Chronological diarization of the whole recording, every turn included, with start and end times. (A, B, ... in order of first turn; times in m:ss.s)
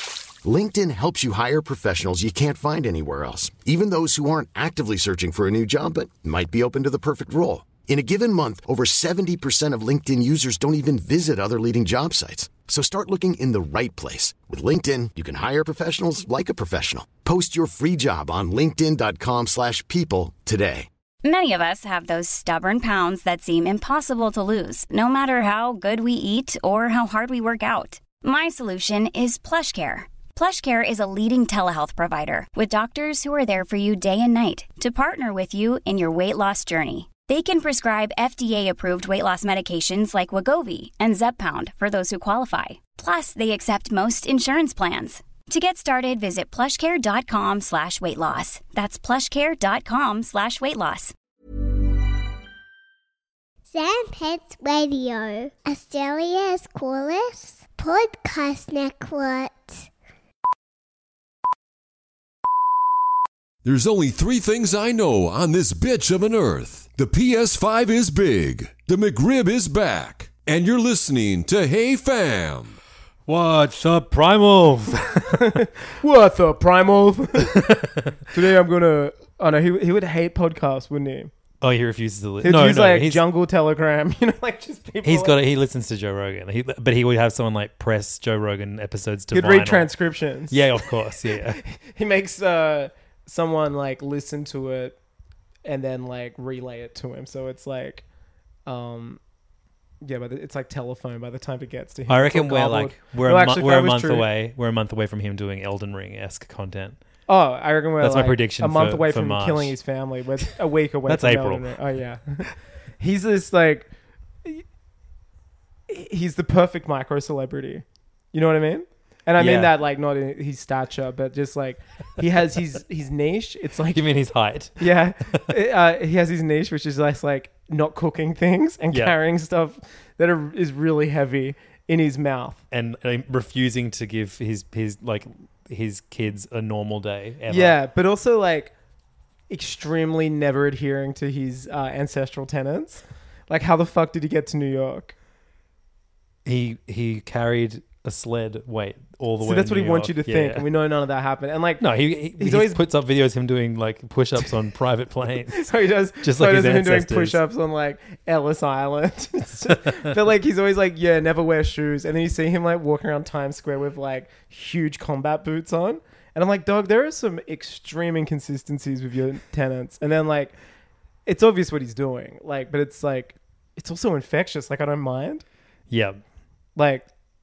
0:00.4-0:20.9 A
0:21.2-0:51.1 B
0:53.7-0:59.8 C
1:03.6-1:12.8 D
1:13.3-1:15.5 E
1:15.2-1:21.3 F
1:17.4-1:18.1 E
1:21.6-1:23.2 E
1:22.4-1:25.4 F
1:25.0-1:29.9 E
1:29.3-1:35.0 F
1:30.5-1:31.6 E
1:35.6-1:38.0 F
1:38.6-1:39.2 F
1:40.0-1:44.3 F
1:42.1-1:47.0 E
1:47.3-1:53.9 F
1:48.0-1:49.8 E
1:51.1-1:51.7 E
1:55.9-2:04.0 F
1:59.4-1:59.7 E
2:03.9-2:05.4 E
2:04.8-2:12.6 F
2:12.7-2:17.8 E
2:17.5-2:18.7 F
2:19.5-2:25.1 F
2:26.4-2:30.6 E
2:29.4-2:31.8 F
2:31.8-2:37.4 E
2:32.4-2:32.8 F
2:35.5-2:50.5 F
2:51.2-2:55.4 F
2:55.9-2:56.2 E
2:56.8-2:57.1 F